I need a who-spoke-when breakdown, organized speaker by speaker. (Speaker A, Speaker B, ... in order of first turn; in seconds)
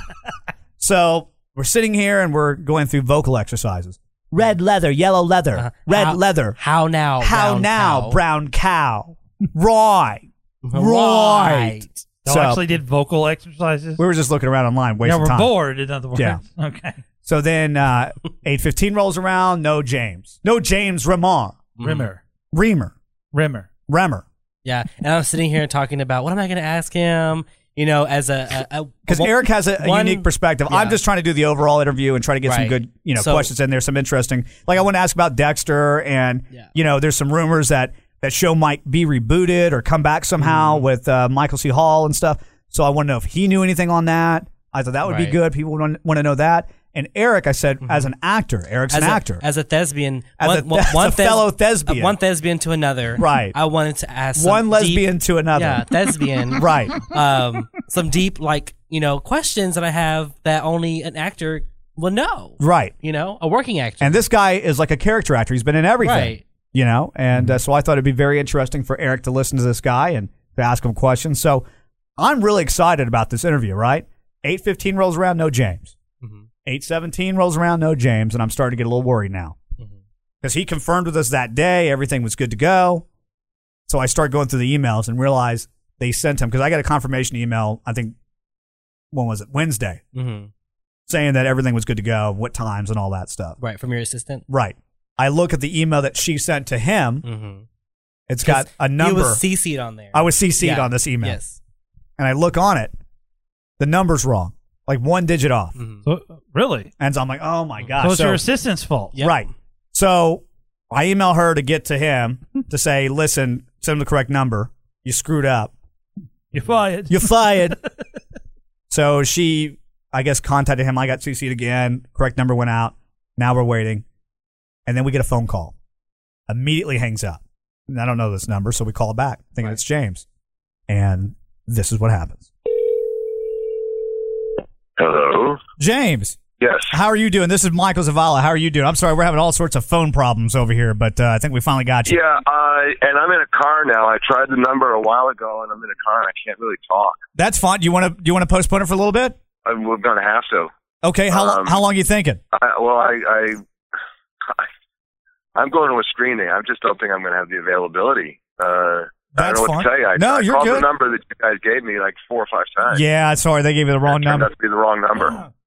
Speaker A: 0.8-6.6, 7.2-12.6, 14.0-15.6, 16.1-16.4, 17.2-21.6, 22.5-22.9, 23.9-24.2, 29.1-49.4, 50.4-52.2, 53.2-53.6, 54.4-55.9, 56.5-57.0, 62.6-62.9, 64.0-71.7, 72.2-75.9, 76.7-79.6, 80.4-83.0, 83.9-88.2, 89.1-90.0, 91.1-93.6, 94.5-97.2, 98.3-99.4, 100.1-101.4, 102.2-102.9, 103.8-105.8, 107.0-108.4, 109.2-115.7, 117.1-117.8, 118.9-124.0, 124.9-125.8, 126.5-130.2, 130.9-132.5, 135.8-136.4, 136.9-142.2, 147.4-149.4, 151.0-152.4, 159.3-160.9, 162.9-164.5
Speaker B: 5.6-8.2, 10.6-12.1, 21.8-22.1, 24.6-31.0, 32.5-33.5, 40.4-40.9, 45.0-45.4, 47.8-48.1, 48.9-64.2, 66.0-66.4, 76.2-76.5, 90.1-90.5, 93.6-94.4, 97.2-97.7, 98.5-101.6, 105.8-106.0, 109.1-109.5
Speaker C: 12.2-14.0, 15.0-17.0, 21.8-22.2, 23.3-23.7, 106.0-106.9, 108.0-109.1, 116.5-117.8
Speaker D: 135.0-135.6, 136.6-136.9, 142.1-147.2, 149.7-150.7, 151.3-151.8, 152.5-153.6, 155.6-163.0, 164.1-165.4